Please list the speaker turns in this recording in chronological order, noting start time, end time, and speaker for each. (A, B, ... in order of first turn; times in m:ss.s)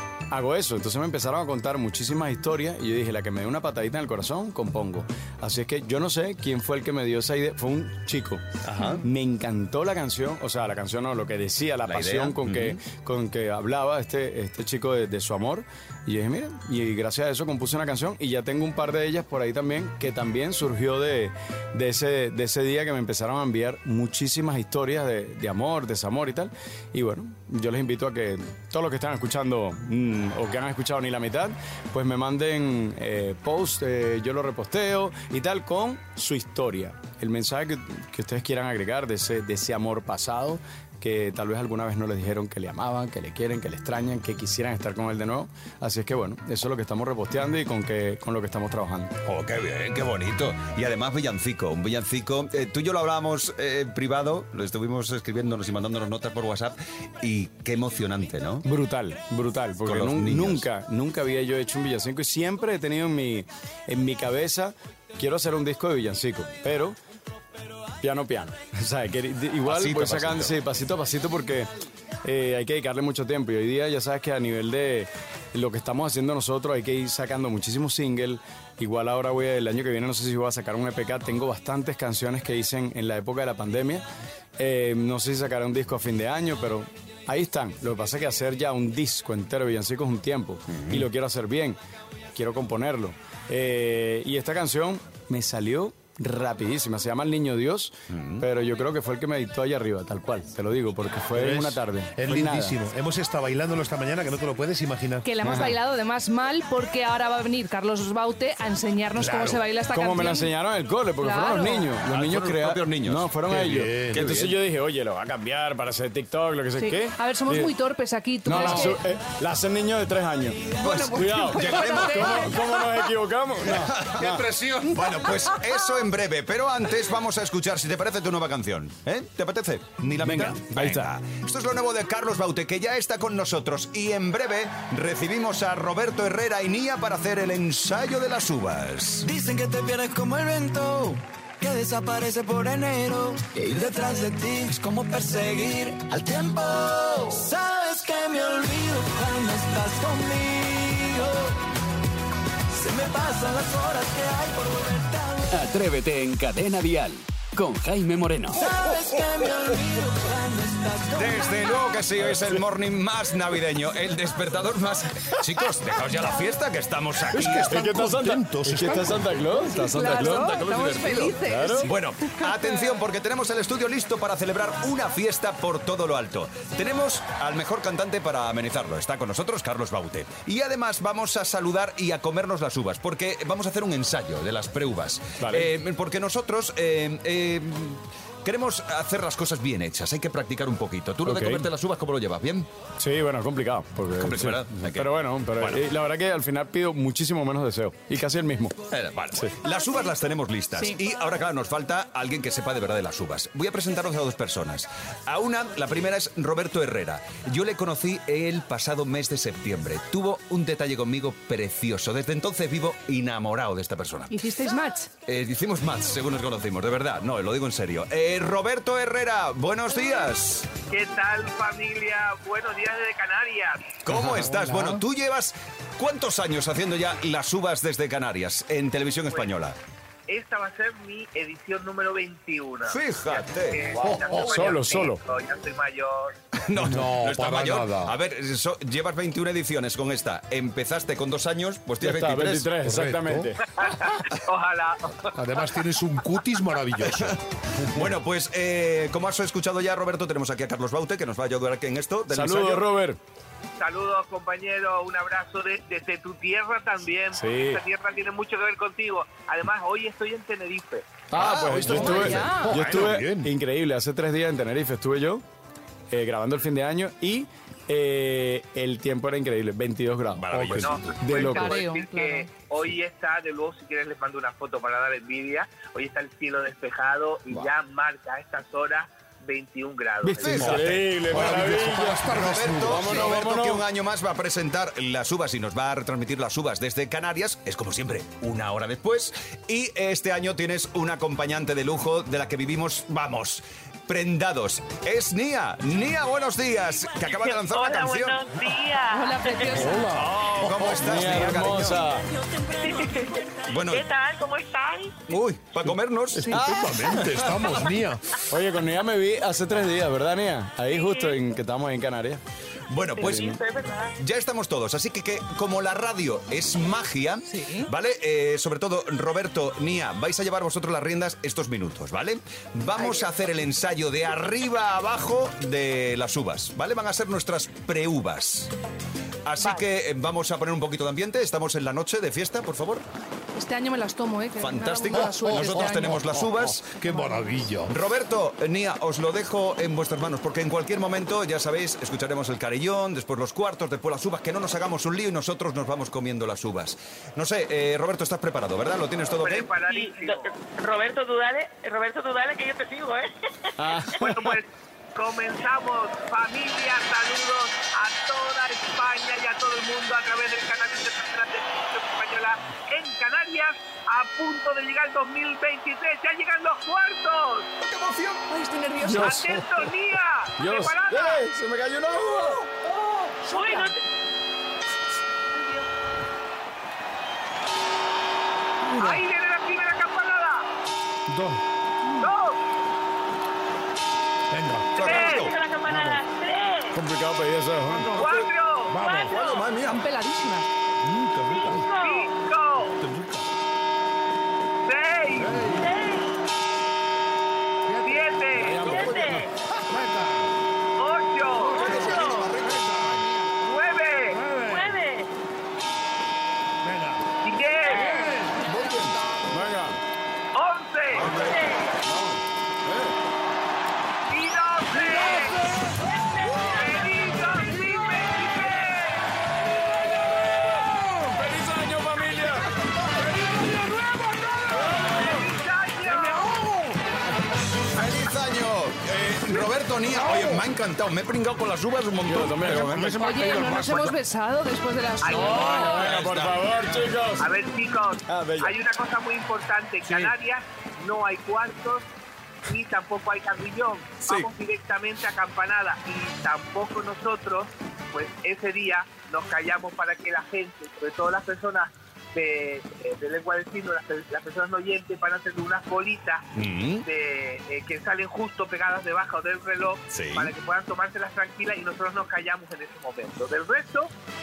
0:00.3-0:08.4 A
0:08.6-0:09.0 B
0:09.0-0:49.1 A
0:11.9-0:12.8 B
0:49.2-0:58.6 B
0:58.6-1:07.0 A
0:59.8-1:00.6 B
1:08.0-1:11.7 A
1:09.6-1:10.5 B
1:12.2-1:24.0 A
1:24.6-1:31.8 A
1:30.7-1:31.1 B
1:32.3-1:42.8 A
1:38.1-1:38.4 B
1:41.3-1:45.3 C
1:45.2-1:50.5 D
1:45.4-1:45.8 A
1:49.2-1:49.6 C
1:49.9-1:57.7 A
1:51.2-1:51.9 D
1:52.0-1:53.3 B
1:53.5-1:54.3 C
1:54.1-1:54.6 B
1:56.8-1:59.0 D
1:58.4-2:04.4 A
2:00.8-2:02.6 B
2:00.8-2:02.9 D
2:03.6-2:05.3 C
2:03.7-2:04.2 B
2:04.9-2:19.3 B
2:10.2-2:11.1 A
2:19.2-2:31.6 E
2:32.7-2:35.5 E
2:35.5-2:38.6 F
2:38.5-2:42.0 E
2:41.2-2:47.8 B
2:42.2-2:42.6 A
2:47.3-2:49.7 C
2:47.6-2:51.9 A
2:49.7-2:52.8 D
2:51.8-3:12.7 B
3:05.4-3:05.7 A
3:11.2-3:11.6 A
3:13.0-3:18.8 A
3:14.2-3:15.8 B
3:18.9-3:34.4 B
3:34.3-3:35.1 D
3:35.2-3:40.7 B
3:40.9-3:44.0 G
3:44.0-3:49.8 B
3:44.4-3:44.9 C
3:50.3-3:56.3 G
3:52.8-3:54.2 B
3:54.0-3:54.8 C
3:54.4-3:55.2 A
3:56.6-4:02.7 B
3:56.8-3:58.2 C
4:02.0-4:03.6 A
4:02.8-4:03.5 C
4:03.8-4:05.4 G
4:05.3-4:07.4 C
4:07.1-4:12.9 B
4:12.3-4:13.2 A
4:13.8-4:21.2 G
4:17.3-4:17.8 A
4:21.3-4:25.4 A
4:21.3-4:22.4 B
4:21.4-4:23.5 C
4:21.8-4:22.8 D
4:26.1-4:31.8 A
4:30.4-4:31.2 B
4:30.5-4:31.0 C
4:30.7-4:40.7 G
4:31.3-4:32.5 D
4:40.2-4:42.3 A
4:40.4-4:58.5 B
4:40.6-4:43.4 C
4:42.8-4:43.8 A
4:57.2-4:59.7 H
4:59.1-5:00.2 D
4:59.7-5:01.3 C
5:00.1-5:02.0 B
5:00.8-5:02.3 A
5:02.8-5:05.2 H
5:03.7-5:04.1 B
5:05.3-5:07.4 B
5:06.4-5:06.9 A
5:06.4-5:08.4 C
5:08.5-5:12.4 A
5:10.9-5:11.4 H
5:12.9-5:13.6 B
5:13.2-5:14.1 H
5:13.2-5:13.6 A
5:14.2-5:28.7 B
5:17.5-5:17.9 D
5:29.4-5:33.0 B
5:33.5-5:36.2 D
5:34.6-5:37.0 B
5:35.1-5:37.9 C
5:37.9-5:49.7 B
5:49.3-5:50.6 G
5:49.9-5:53.3 H
5:53.8-5:54.6 A
5:54.1-6:07.7 G
6:07.8-6:08.4 B
6:08.5-6:09.3 D
6:09.0-6:09.9 A
6:09.2-6:11.5 G
6:10.6-6:12.6 A
6:13.5-6:13.9 D
6:13.6-6:13.9 H
6:18.8-6:19.2 C
6:18.9-6:20.6 G
6:21.3-6:21.6 C
6:22.2-6:22.6 G
6:24.5-6:25.3 C
6:25.0-6:25.6 G
6:25.0-6:25.6 B
6:25.3-6:26.9 H
6:25.8-6:26.2 C
6:26.9-6:28.3 A
6:28.0-6:29.4 G
6:28.9-6:29.3 C
6:29.3-6:30.0 B
6:29.8-6:30.7 D
6:31.0-6:31.9 C
6:31.5-6:32.3 H
6:31.9-6:33.0 G
6:32.9-6:33.5 C
6:34.8-6:35.8 G
6:35.4-6:35.9 C
6:35.8-6:36.2 H
6:37.9-6:40.5 C
6:38.0-6:39.2 G
6:38.9-6:39.4 H
6:41.0-6:42.2 G
6:41.6-6:43.5 C
6:41.8-6:42.8 B
6:43.5-6:44.4 G
6:44.3-6:45.0 C
6:44.7-6:45.3 H
6:46.8-6:47.2 C
6:47.4-6:48.4 G
6:47.8-6:48.2 H
6:47.9-6:49.4 C
6:48.7-6:49.1 B
6:49.5-6:50.0 A
6:50.5-6:51.5 G
6:51.2-6:51.6 B
6:51.3-6:51.5 C
6:51.3-6:51.8 H
6:54.3-6:55.7 G
6:56.1-6:56.9 H
6:56.6-6:59.3 G
7:01.3-7:02.7 A
7:04.8-7:06.6 G
7:06.1-7:06.9 C
7:07.9-7:13.0 B
7:10.1-7:10.6 C
7:12.3-7:13.2 A
7:12.6-7:14.2 C
7:13.2-7:16.1 D
7:15.2-7:16.1 G
7:15.2-7:17.5 A
7:15.5-7:17.0 B
7:17.4-7:22.0 G
7:18.2-7:18.8 A
7:22.6-7:36.4 G
7:36.5-7:37.0 B
7:37.0-7:44.1 G
7:40.1-7:40.5 B